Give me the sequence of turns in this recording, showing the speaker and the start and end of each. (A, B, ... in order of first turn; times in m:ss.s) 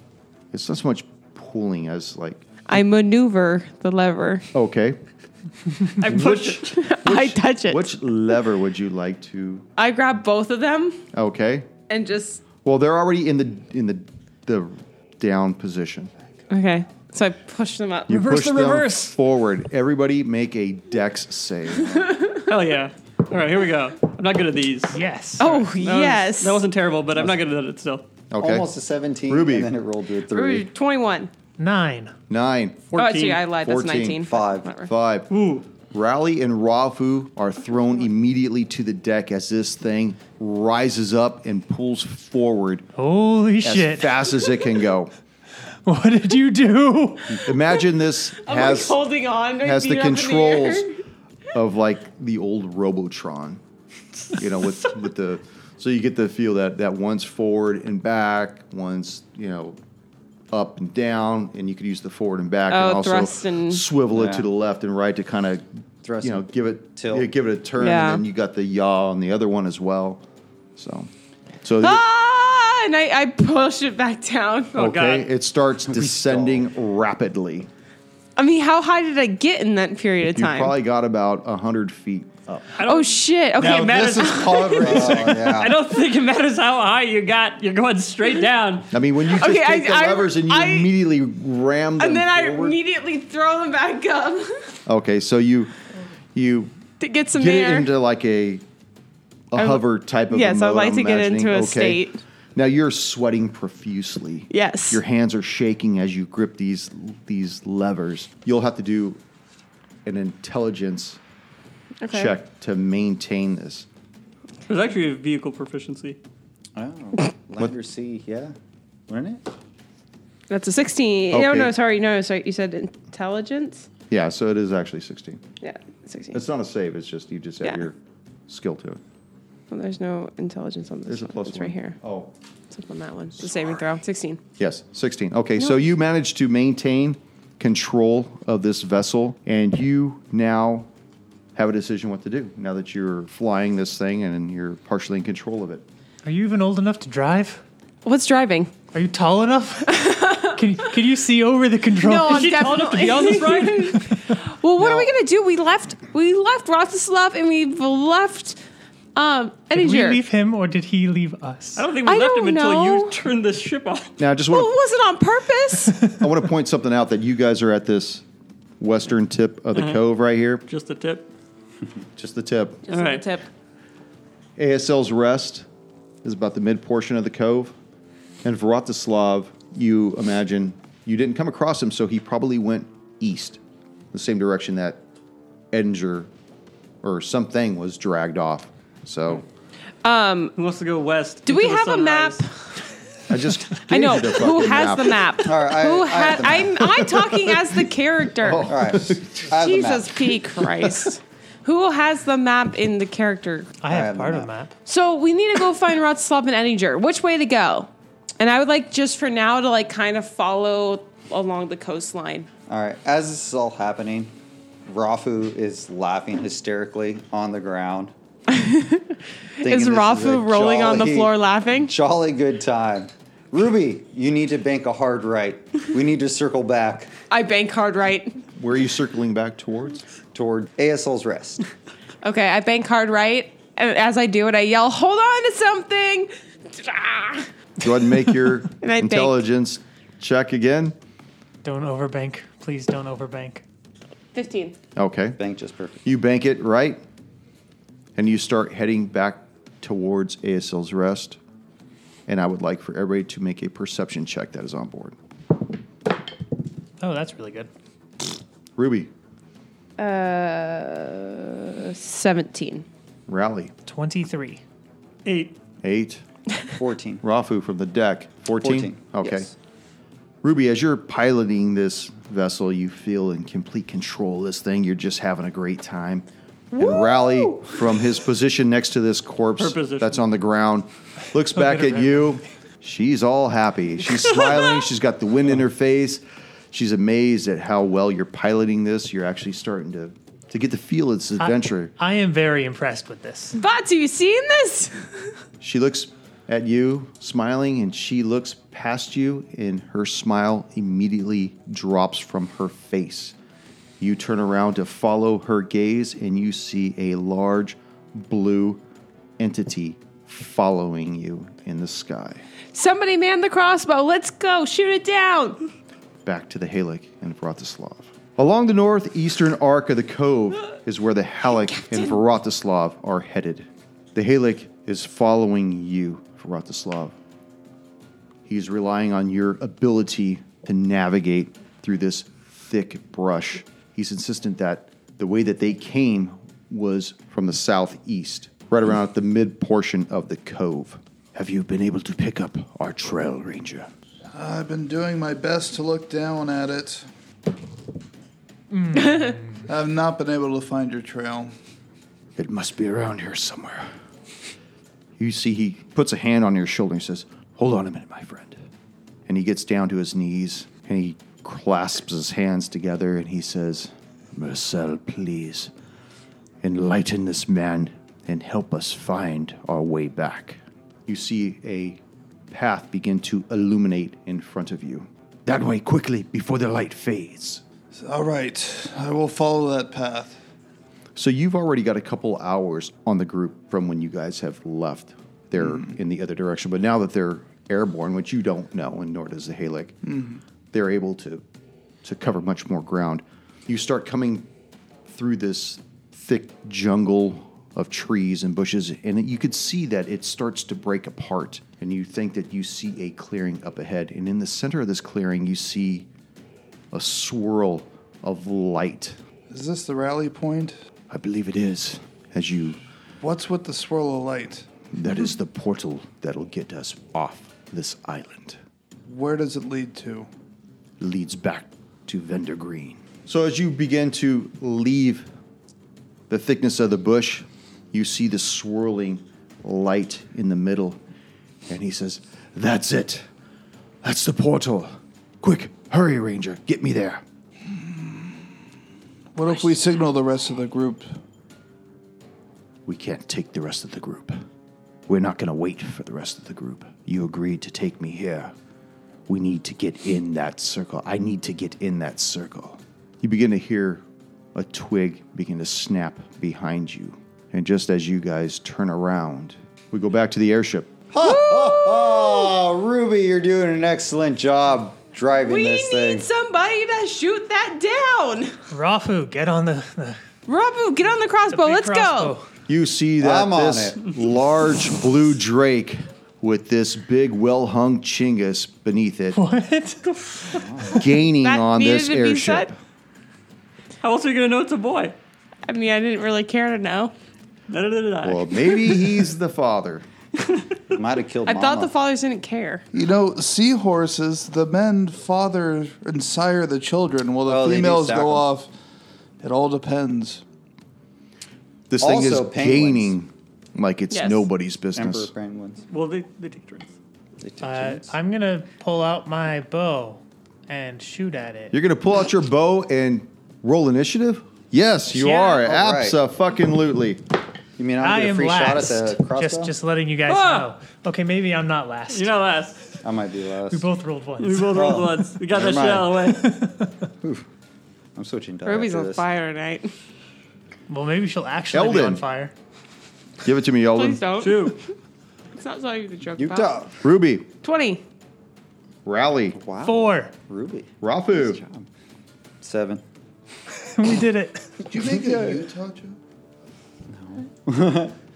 0:00.5-0:02.4 A
0:02.7-0:04.5 B
0:04.5-0:05.0 A
0:06.0-0:07.9 B
0:06.0-0:09.6 A
0:06.0-0:06.7 C
0:09.8-0:11.0 B
0:11.1-0:11.7 A
0:11.9-0:12.4 B
0:12.6-0:16.1 A
0:16.5-0:18.1 B
0:18.1-0:22.1 A
0:18.1-0:19.2 C
0:22.0-0:22.4 B
0:22.3-0:28.0 C
0:24.9-0:25.6 D
0:25.4-0:26.6 B
0:28.3-0:28.7 A
0:28.4-0:30.6 E
0:29.3-0:29.7 A
0:30.3-0:31.3 B
0:31.6-0:32.1 D
0:32.3-0:35.3 A
0:32.9-0:33.4 C
0:32.9-0:34.9 B
0:34.3-0:34.7 E
0:35.3-0:35.6 C
0:35.9-0:42.8 A
0:43.0-0:44.5 D
0:43.6-0:45.1 A
0:45.8-0:47.5 D
0:47.4-0:49.0 A
0:48.4-0:50.9 B
0:49.6-0:50.9 A
0:51.5-0:53.6 A
0:54.3-0:59.8 A
1:00.5-1:05.6 A
1:02.7-1:03.8 B
1:04.1-1:04.5 E
1:06.0-1:07.3 E
1:06.2-1:10.2 A
1:07.8-1:08.2 B
1:10.8-1:11.1 A
1:11.6-1:12.0 A
1:11.8-1:14.9 B
1:14.8-1:15.3 C
1:14.8-1:17.7 A
1:15.8-1:16.7 E
1:18.4-1:20.7 B
1:20.4-1:22.8 A
1:22.8-1:28.9 C
1:22.8-1:25.2 B
1:23.9-1:24.2 F
1:24.3-1:25.8 E
1:28.9-1:32.8 A
1:29.2-1:30.9 B
1:32.0-1:34.7 B
1:34.8-1:35.7 A
1:36.3-1:36.7 A
1:37.0-1:37.9 B
1:37.3-1:38.6 A
1:39.5-1:42.0 A
1:39.6-1:42.2 B
1:42.5-1:49.2 A
1:44.5-1:45.0 B
1:50.0-1:51.2 A
1:52.0-1:52.3 B
1:52.1-1:53.9 A
1:54.6-1:56.2 C
1:56.8-1:58.5 E
1:59.1-1:59.4 E
2:00.5-2:03.9 B
2:01.3-2:01.7 A
2:04.1-2:05.4 A
2:05.6-2:06.4 B
2:06.3-2:07.9 A
2:08.5-2:09.0 A
2:09.7-2:12.0 B
2:11.0-2:12.3 A
2:12.7-2:14.4 B
2:14.6-2:20.9 A
2:21.5-2:25.8 A
2:26.2-2:27.6 D
2:28.0-2:28.8 B
2:28.9-2:32.6 D
2:29.9-2:30.6 B
2:32.0-2:38.6 B
2:32.2-2:34.1 C
2:39.1-2:40.2 B
2:39.7-2:41.8 D
2:41.8-2:44.1 C
2:42.0-2:43.1 B
2:44.2-2:44.7 A
2:44.5-2:46.1 B
2:46.1-2:48.2 A
2:48.8-2:50.6 A
2:49.7-2:50.0 C
2:50.6-2:51.3 C
2:52.2-2:52.8 A
2:52.9-2:53.4 B
2:52.9-2:53.2 C
2:54.6-2:55.6 A
2:56.2-2:57.7 A
2:58.4-3:03.6 A
3:04.1-3:05.0 A
3:05.7-3:06.3 A
3:07.0-3:09.4 A
3:10.0-3:10.5 B
3:10.6-3:12.4 C
3:11.4-3:12.7 B
3:13.3-3:15.4 A
3:13.9-3:18.7 B
3:15.4-3:17.0 E
3:17.1-3:17.4 A
3:18.4-3:19.5 A
3:18.5-3:20.3 E
3:19.5-3:23.8 B
3:23.8-3:24.7 D
3:23.9-3:24.5 E
3:24.8-3:32.5 B
3:32.7-3:34.3 E
3:34.8-3:38.1 E
3:38.5-3:41.9 B
3:39.6-3:47.1 E
3:47.3-3:48.4 B
3:48.6-3:50.0 A
3:50.3-3:51.6 E
3:52.2-3:57.5 B
3:57.8-4:00.9 A
3:58.8-3:59.4 B
4:01.6-4:03.6 D
4:04.3-4:04.8 B
4:05.0-4:05.4 A
4:05.4-4:06.0 E
4:06.0-4:07.0 A
4:08.2-4:11.4 A
4:12.3-4:15.2 A
4:17.0-4:17.7 D
4:18.8-4:19.1 A
4:20.0-4:22.8 B
4:23.3-4:23.7 A
4:23.8-4:24.6 D
4:25.2-4:25.6 C
4:25.8-4:26.2 A
4:26.7-4:27.2 E
4:27.2-4:29.5 A
4:28.6-4:29.5 E
4:30.4-4:51.9 A
4:36.7-4:37.7 B
4:39.6-4:40.2 C
4:41.5-4:42.4 D
4:51.4-4:53.6 D
4:53.6-4:55.3 B
4:55.6-5:03.3 A
5:04.0-5:08.8 A
5:09.4-5:12.4 A
5:12.7-5:15.6 B
5:16.2-5:27.1 A
5:21.8-5:22.1 B
5:28.4-5:43.9 A
5:44.3-5:47.0 F
5:48.7-5:49.6 D
5:49.6-5:51.5 F
5:52.4-5:53.9 A
5:55.2-5:58.6 A
5:59.3-6:05.7 A
6:06.6-6:12.0 A
6:12.5-6:17.6 A
6:17.9-6:20.4 F
6:21.2-6:30.0 A
6:30.0-6:30.4 F
6:30.7-6:31.4 A
6:32.0-6:34.5 A
6:35.1-6:46.1 A
6:46.9-6:49.2 A
6:49.5-6:50.8 F
6:51.1-6:52.8 A
6:53.2-6:54.7 F
6:54.9-6:58.6 A
6:59.1-7:00.3 F
7:01.0-7:05.3 A
7:06.3-7:11.0 A
7:11.7-7:13.2 A
7:14.0-7:17.2 A
7:17.7-7:18.5 F
7:19.3-7:21.1 F
7:22.8-7:24.4 A
7:25.1-7:28.5 A
7:29.3-7:34.0 A
7:34.5-7:41.0 A
7:41.1-7:46.3 E
7:41.2-7:42.5 B
7:45.4-7:48.6 B
7:48.7-7:50.2 D
7:50.4-7:52.3 B
7:51.5-7:52.5 D
7:52.7-7:59.4 A
7:53.2-7:54.0 E
7:59.3-8:00.6 D
8:00.5-8:01.0 E
8:00.9-8:02.7 A
8:01.4-8:02.7 B
8:04.0-8:05.1 C
8:05.6-8:07.1 B
8:07.7-8:09.2 C
8:08.2-8:10.0 A
8:10.9-8:11.9 E
8:11.5-8:12.8 B
8:12.9-8:18.7 F
8:17.5-8:18.5 E
8:19.4-8:20.4 F
8:21.9-8:25.3 A
8:22.0-8:23.2 E
8:24.1-8:24.5 B
8:24.9-8:25.8 E
8:25.9-8:26.9 C
8:27.4-8:28.1 E
8:27.6-8:31.7 D
8:31.7-8:37.2 A
8:35.2-8:36.2 E
8:37.8-8:39.7 E
8:38.0-8:42.3 D
8:40.3-8:40.7 C
8:42.1-8:42.8 C
8:43.0-8:43.9 E
8:43.7-8:44.8 D
8:44.4-8:46.4 C
8:44.7-8:46.3 E
8:46.4-8:46.9 D
8:48.1-8:49.2 E
8:48.6-8:49.9 B
8:50.9-8:52.5 D
8:51.7-8:52.2 A
8:53.4-8:54.2 A
8:53.9-8:54.9 B
8:54.4-8:54.8 C
8:55.5-8:56.9 B
8:56.4-8:57.0 E
8:57.0-8:57.5 A
8:57.6-8:58.0 B
8:59.0-8:59.6 A
8:59.5-9:01.9 E
8:59.8-9:00.3 D
9:01.0-9:01.6 A
9:02.6-9:03.0 E
9:03.7-9:04.8 D
9:04.8-9:06.2 F
9:04.9-9:05.6 E
9:07.1-9:08.1 E